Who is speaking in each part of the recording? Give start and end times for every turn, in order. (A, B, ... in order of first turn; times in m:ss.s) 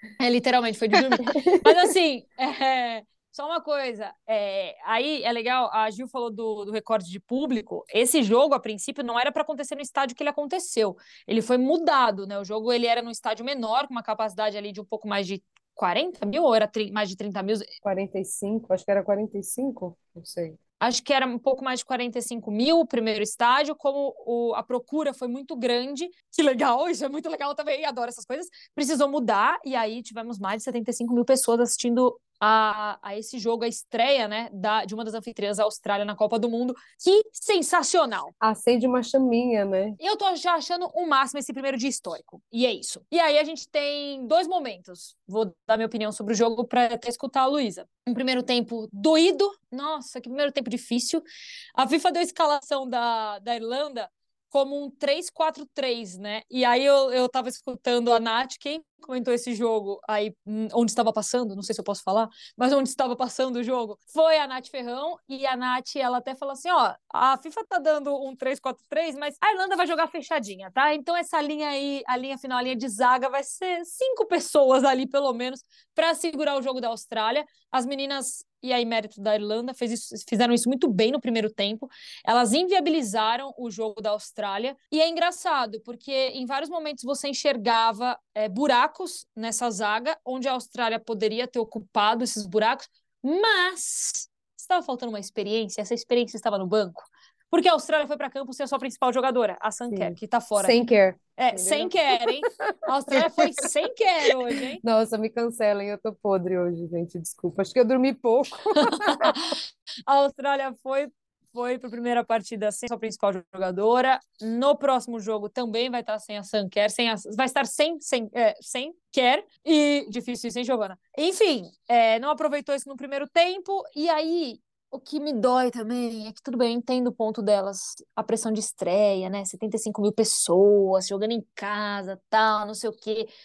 0:00.2-0:17.7 A
0:01.2-0:01.9 B
0:17.8-0:20.6 B
0:20.8-0:38.3 A
0:38.4-0:40.0 B
0:40.0-0:51.2 A
0:51.8-1:40.8 A
1:39.9-1:43.7 B
1:41.4-1:44.8 A
1:44.8-1:49.3 B
1:48.8-2:13.3 A